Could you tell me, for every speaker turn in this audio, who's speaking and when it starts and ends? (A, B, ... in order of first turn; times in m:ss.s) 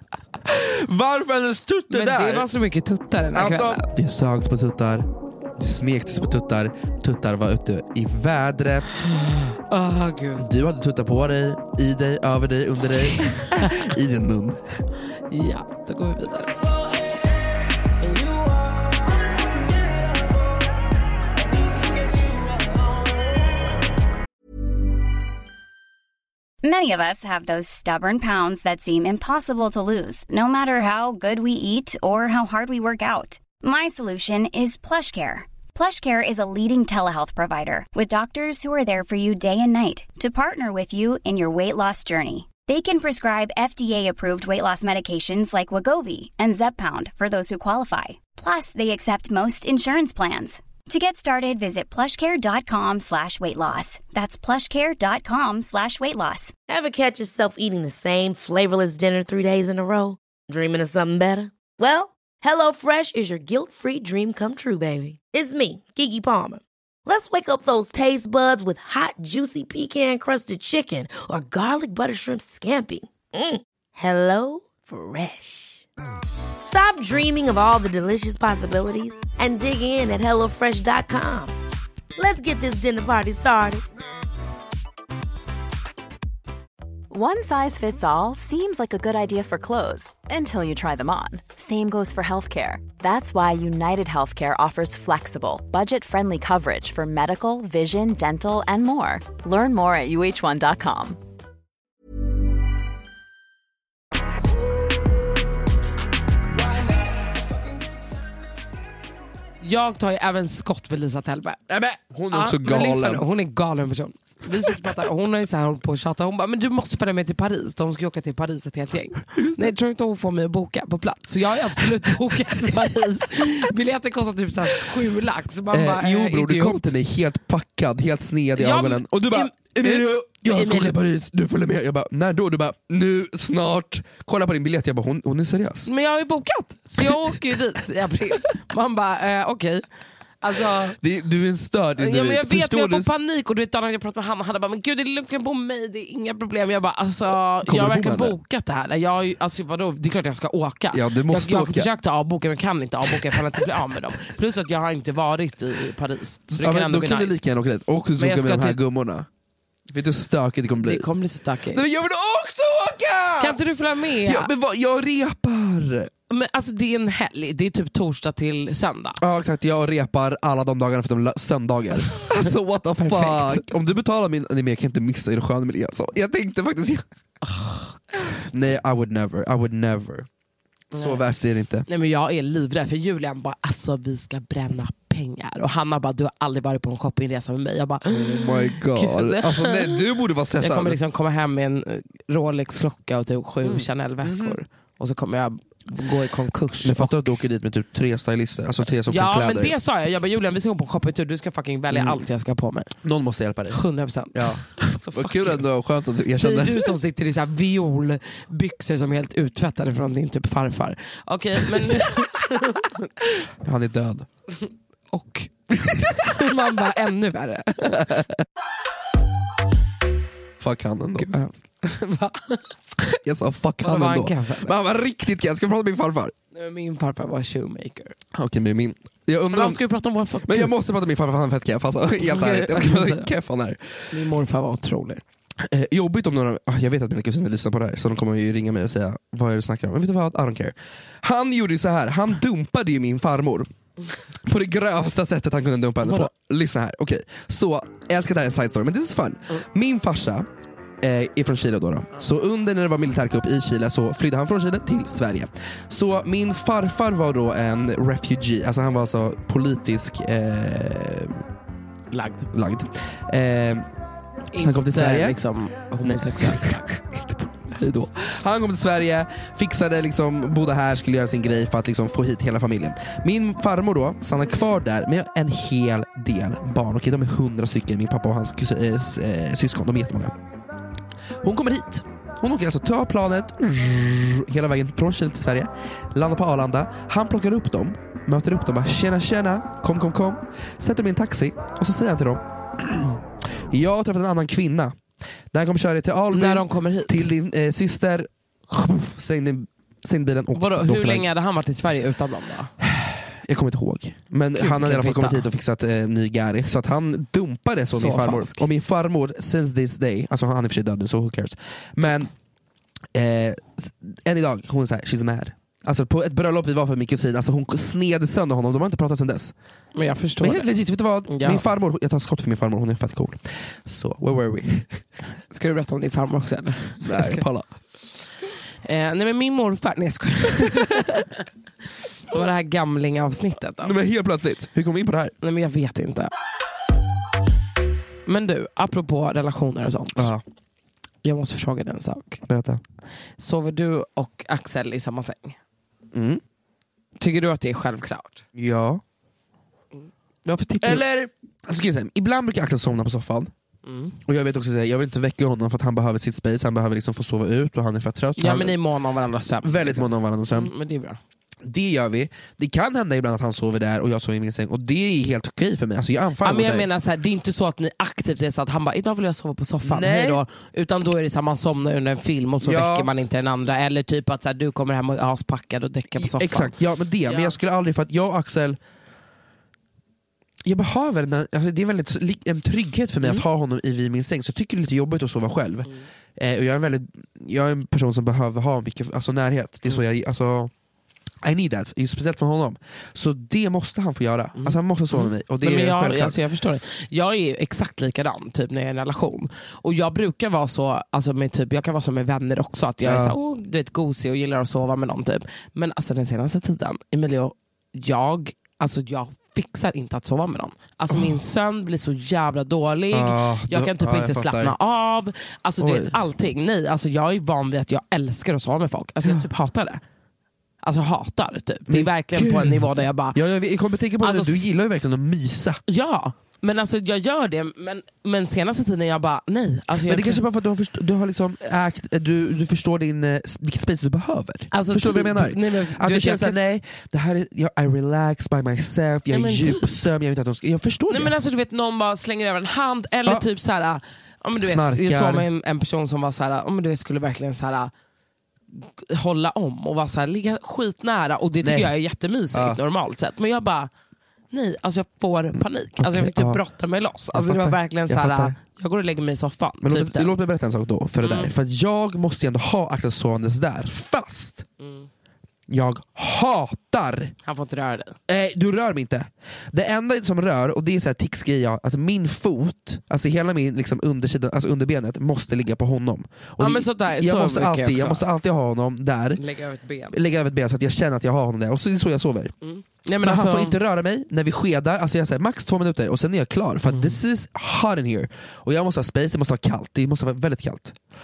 0:00.4-0:02.5 A
0:01.9-0:03.8 B
0:03.3-0:09.1 A
0:09.0-0:10.5 B
0:10.4-0:14.6 A
0:13.2-0:13.7 B
0:15.3-0:16.7 B
0:26.6-0:56.5 C
0:56.7-1:15.8 D
1:16.6-1:21.5 D
1:22.2-1:23.8 D
1:27.1-1:41.2 E
1:49.6-1:51.6 B
1:51.7-1:53.2 A
1:52.3-2:06.9 B
1:59.3-1:59.7 A
2:05.7-2:15.9 A
2:08.6-2:11.0 B
2:15.8-2:19.8 B
2:17.0-2:17.3 A
2:20.4-2:21.0 B
2:21.0-2:23.1 A
2:22.0-2:37.4 B
2:27.6-2:28.3 A
2:30.9-2:31.9 A
2:33.1-2:33.6 A
2:36.5-2:39.3 A
2:38.2-2:38.8 B
2:39.9-2:41.0 A
2:40.8-2:41.8 B
2:41.7-2:43.6 A
2:43.4-2:44.5 B
2:44.2-2:46.1 A
2:46.3-2:49.2 B
2:49.2-2:57.0 A
2:53.0-2:53.6 B
2:57.4-2:58.4 B
2:58.5-3:00.3 A
3:00.9-3:01.3 B
3:00.9-3:01.9 A
3:01.9-3:10.1 B
3:08.1-3:11.0 A
3:10.6-3:17.4 B
3:13.6-3:14.6 A
3:16.8-3:19.7 A
3:19.1-3:22.9 B
3:21.9-3:22.2 A
3:23.0-3:23.8 A
3:23.7-3:25.6 B
3:24.3-3:26.9 A
3:26.3-3:33.4 B
3:33.6-3:34.3 A
3:34.6-3:38.1 B
3:37.8-3:38.4 A
3:40.6-3:41.3 A
3:41.2-3:43.0 B
3:43.2-3:46.3 A
3:43.8-3:44.7 B
3:46.5-3:48.2 B
3:48.3-3:49.8 A
3:49.5-3:50.7 B
3:50.4-3:54.3 A
3:52.2-3:53.3 B
3:54.1-3:55.2 B
3:55.6-4:03.7 A
4:04.4-4:10.5 A
4:06.0-4:06.3 B
4:11.0-4:21.4 A
4:22.1-4:22.5 B
4:22.5-4:23.9 A
4:24.5-4:26.8 B
4:24.6-4:25.4 A
4:26.0-4:40.3 A
4:41.4-4:55.0 A
4:55.5-5:01.2 A
4:56.3-4:57.3 B
5:00.5-5:02.7 B
5:02.8-5:12.3 A
5:04.5-5:05.5 B
5:07.9-5:08.7 B
5:13.1-5:19.5 A
5:19.9-5:20.7 B
5:20.4-5:25.0 A
5:21.3-5:21.6 B
5:25.5-5:27.4 B
5:27.0-5:27.7 A
5:28.8-5:31.4 B
5:32.2-5:34.0 B
5:33.8-5:35.3 A
5:35.4-5:36.3 B
5:38.3-5:40.3 B
5:40.2-5:40.4 A
5:41.2-5:42.4 B
5:42.5-5:42.8 A
5:43.4-5:45.6 B
5:46.1-5:46.4 A
5:47.2-5:48.4 B
5:48.5-5:49.0 A
5:49.9-5:51.0 B
5:50.8-5:53.5 A
5:53.8-5:54.2 B
5:54.3-5:58.8 A
5:58.4-6:01.2 B
5:59.6-6:00.7 A
6:01.6-6:06.9 A
6:06.4-6:17.6 B
6:09.8-6:10.4 A
6:12.6-6:13.1 A
6:16.1-6:18.8 A
6:20.6-6:30.7 A
6:31.4-6:36.4 A
6:34.6-7:00.0 B
6:43.0-6:43.4 A
6:51.1-6:51.4 A
6:53.1-6:54.8 A
6:55.8-6:56.2 A
7:00.8-7:03.4 B
7:01.9-7:05.8 A
7:04.2-7:04.7 B
7:05.9-7:10.4 B
7:10.0-7:21.3 A
7:14.7-7:16.6 B
7:19.3-7:19.9 B
7:21.1-7:27.9 B
7:24.6-7:25.5 A
7:28.7-7:33.9 B
7:31.6-7:31.9 A
7:32.5-7:32.8 A
7:34.5-7:40.3 B
7:36.0-7:36.6 A
7:37.3-7:38.6 A
7:39.8-7:44.6 A
7:41.2-7:41.5 B
7:44.8-7:45.1 B
7:45.7-7:47.3 A
7:47.4-7:48.2 B
7:48.3-7:59.4 A
7:56.6-7:58.2 B
7:59.4-8:00.2 B
8:00.1-8:02.5 A
8:02.6-8:03.8 B
8:03.2-8:11.0 A
8:06.9-8:07.2 B